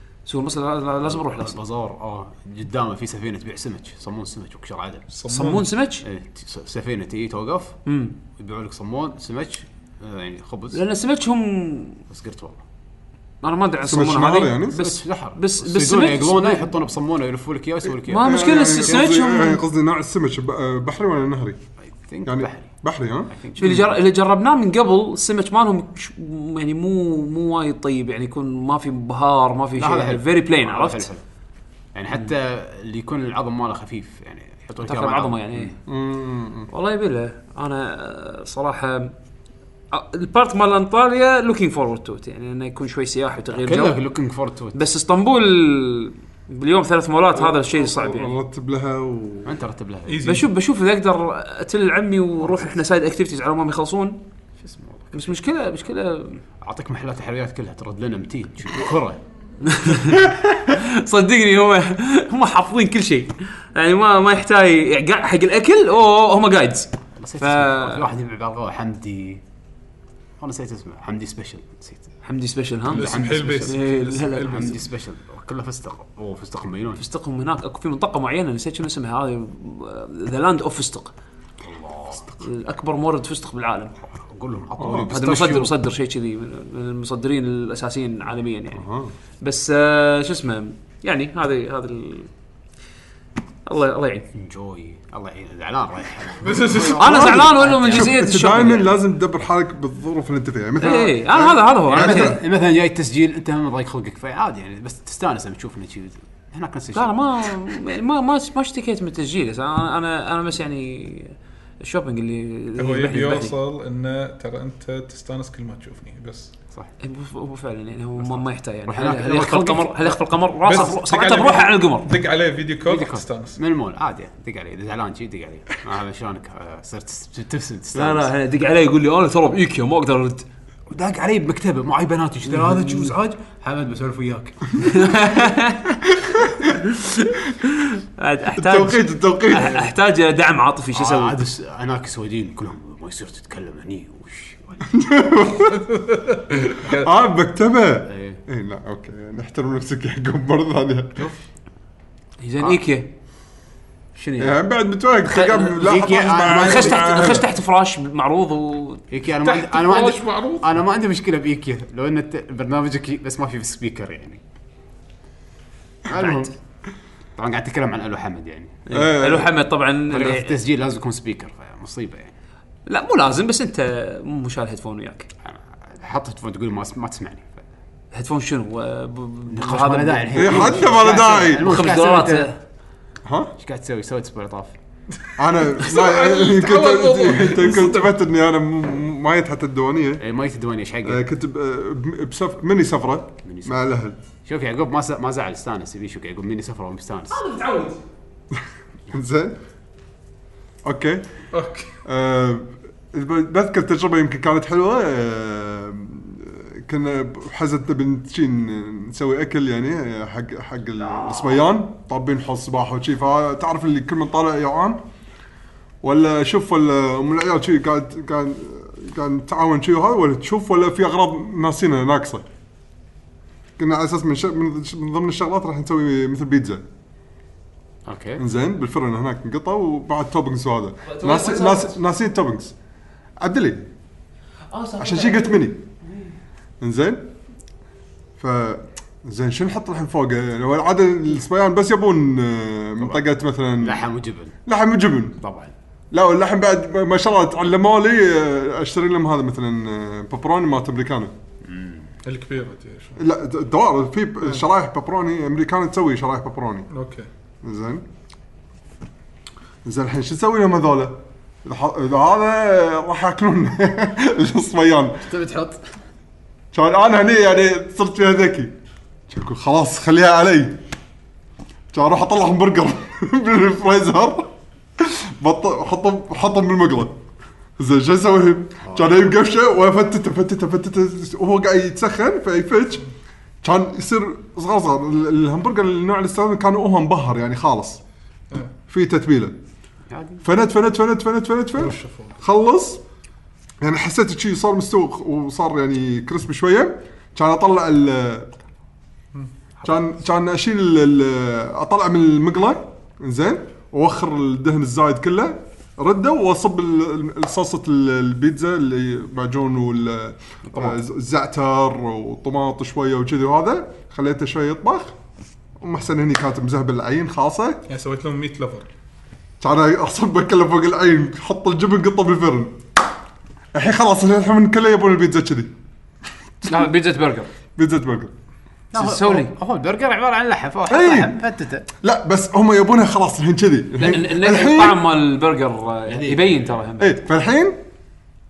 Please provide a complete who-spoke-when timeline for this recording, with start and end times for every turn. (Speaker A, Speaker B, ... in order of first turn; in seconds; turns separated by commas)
Speaker A: 0.2-1.6, Speaker B: 1.0-5.0, Speaker C: 5.1-5.7, Speaker A: 5.2-6.0, Speaker B: 6.0-7.8, Speaker A: 7.8-8.2, Speaker B: 8.3-10.8, Speaker A: 10.7-12.0, Speaker B: 12.1-12.6, Speaker A: 13.4-16.7, Speaker D: 13.8-14.8, Speaker B: 14.7-18.4, Speaker A: 18.0-19.6, Speaker D: 18.1-21.6, Speaker B: 21.8-22.7, Speaker D: 22.2-23.8, Speaker B: 23.3-23.9, Speaker A: 23.6-31.1, Speaker B: 29.8-31.2, Speaker B: 31.9-35.8, Speaker A: 34.8-35.7, Speaker D: 35.9-36.7, Speaker A: 36.7-39.1, Speaker A: 39.9-44.0, Speaker B: 43.5-44.8, Speaker A: 44.7-48.3, Speaker D: 47.3-49.6, Speaker B: 49.4-50.2, Speaker C: 50.1-50.5, Speaker A: 50.2-54.2, Speaker B: 52.4-52.8, Speaker B: 54.6-55.3, Speaker A: 55.1-56.4, Speaker B: 56.6-59.2, Speaker A: 59.6-68.1, Speaker B: 67.2-69.4, Speaker B: 70.4-72.0, Speaker A: 72.2-74.7, Speaker B: 72.9-73.8, Speaker C: 72.9-74.8, Speaker B: 74.5-77.0, Speaker A: 77.0-81.1, Speaker B: 81.6-82.3, Speaker A: 82.4-83.9, Speaker B: 84.1-85.8, Speaker D: 84.8-85.1, Speaker A: 85.1-88.8, Speaker D: 88.7-89.1, Speaker A: 89.4-92.3, Speaker A: 93.7-94.3, Speaker B: 94.3-98.7, Speaker C: 96.4-97.1, Speaker A: 97.0-98.9, Speaker D: 97.0-102.4, Speaker A: 100.8-102.4, Speaker B: 101.9-107.8, Speaker A: 106.9-113.5, Speaker C: 112.8-116.5, Speaker A: 117.0-122.1, Speaker B: 118.9-120.2, Speaker C: 120.6-123.6, Speaker B: 122.8-128.3, Speaker A: 127.9-130.4, Speaker B: 130.9-135.3, Speaker A: 132.5-133.1, Speaker A: 134.8-141.4, Speaker D: 138.5-139.9, Speaker B: 140.9-144.9, Speaker D: 144.9-151.3, Speaker C: 146.7-147.1, Speaker B: 148.1-148.4, Speaker A: 152.4-153.1, Speaker A: 154.1-154.6, Speaker D: 154.4-157.5, Speaker A: 155.3-155.9, Speaker B: 155.5-157.3, Speaker A: 156.4-159.0, Speaker B: 159.1-164.4, Speaker C: 159.4-160.7, Speaker B: 166.1-166.5, Speaker D: 166.1-166.5, Speaker B: 167.3-168.8, Speaker A: 168.9-170.5, Speaker D: 168.9-169.5, Speaker B: 170.1-172.3, Speaker A: 172.9-175.3, Speaker B: 175.4-177.6, Speaker A: 178.1-182.6, Speaker B: 179.5-182.5, Speaker D: 180.3-181.8, Speaker D: 183.2-183.5, Speaker B: 183.6-184.7, Speaker D: 185.4-190.2, Speaker C: 185.7-188.1, Speaker B: 190.2-191.2, Speaker D: 191.0-194.2, Speaker B: 193.4-193.8, Speaker B: 194.4-197.4, Speaker A: 197.3-198.0, Speaker D: 199.1-199.6, Speaker D: 200.8-201.2, Speaker C: 201.5-201.9, Speaker D: 202.0-215.0, Speaker D: 216.0-222.4, Speaker D: 223.8-226.8, Speaker B: 228.1-228.4, Speaker D: 228.4-232.7, Speaker A: 231.0-231.9, Speaker D: 233.4-233.8, Speaker A: 234.7-236.3, Speaker D: 235.0-235.8, Speaker D: 236.8-237.2, Speaker D: 238.4-244.0, Speaker B: 243.8-244.5, Speaker D: 244.7-245.4, Speaker B: 245.4-245.7, Speaker D: 246.1-251.3, Speaker B: 251.6-252.1, Speaker C: 252.2-253.2, Speaker D: 253.2-256.9, Speaker C: 256.9-257.3, Speaker D: 257.6-258.0, Speaker D: 259.8-265.3, Speaker B: 265.3-265.8, Speaker D: 266.7-268.7, Speaker D: 269.3-270.8, Speaker D: 271.9-277.2, Speaker D: 277.8-283.0, Speaker D: 283.6-288.0, Speaker D: 288.9-289.6, Speaker B: 290.1-290.4, Speaker D: 290.4-293.0, Speaker C: 291.8-292.4, Speaker D: 293.8-298.5, Speaker D: 299.8-315.1, Speaker D: 315.8-317.8, Speaker C: 317.9-318.9, Speaker D: 319.6-322.8, Speaker D: 323.7-325.7, Speaker A: 326.6-327.5, Speaker D: 327.8-328.3, Speaker B: 328.9-331.9, Speaker A: 328.9-329.5, Speaker D: 330.9-331.3, Speaker D: 332.0-335.0, Speaker A: 334.0-337.2, Speaker B: 336.1-336.6, Speaker D: 337.0-337.8